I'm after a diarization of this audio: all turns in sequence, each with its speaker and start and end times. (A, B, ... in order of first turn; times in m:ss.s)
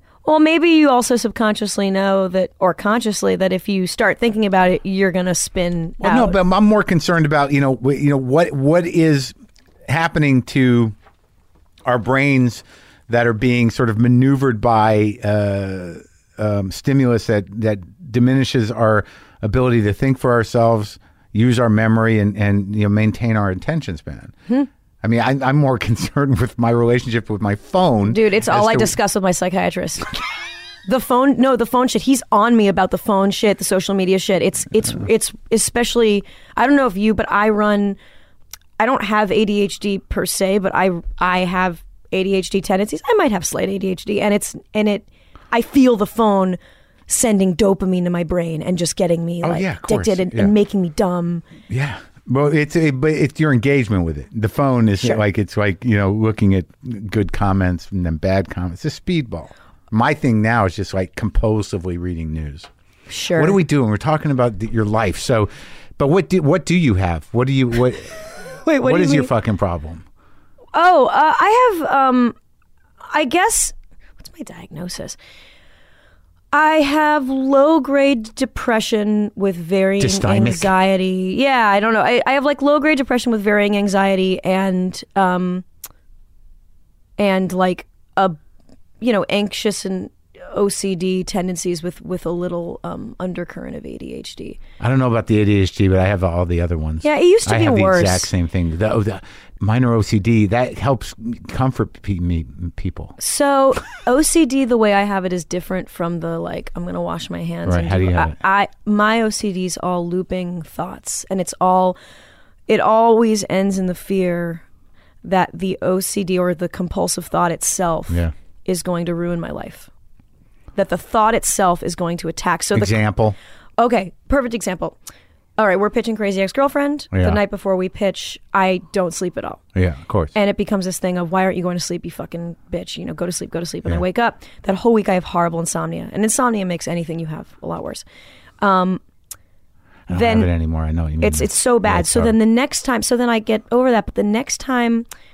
0:00.2-0:06.4 A
0:06.0-0:09.3 B
0:09.9-0:11.0 B
0:11.8-0:24.4 B
0:25.0-0:29.0 B
0:28.1-0:30.1 A
0:30.9-0:38.0 A
0:38.8-0:51.5 A
0:49.4-0:50.5 B
0:51.7-1:02.7 B
1:03.1-1:03.6 A
1:03.4-1:08.3 B
1:08.6-1:09.3 A
1:08.8-1:10.0 B
1:10.7-1:12.4 A
1:13.1-1:15.2 A
1:16.5-1:25.6 A
1:20.0-1:20.7 B
1:27.2-1:28.4 A
1:29.0-1:34.6 A
1:34.8-1:43.2 B
1:37.0-1:38.3 A
1:43.2-1:52.0 A
1:47.7-1:48.4 B
1:52.7-1:54.6 A
1:55.2-1:59.9 A
2:00.8-2:03.0 A
2:02.8-2:03.4 B
2:03.8-2:05.0 A
2:05.6-2:09.6 A
2:07.1-2:07.4 B
2:09.8-2:10.3 B
2:10.4-2:18.0 A
2:18.6-2:19.0 A
2:20.1-2:22.4 B
2:20.1-2:20.5 A
2:21.2-2:25.1 A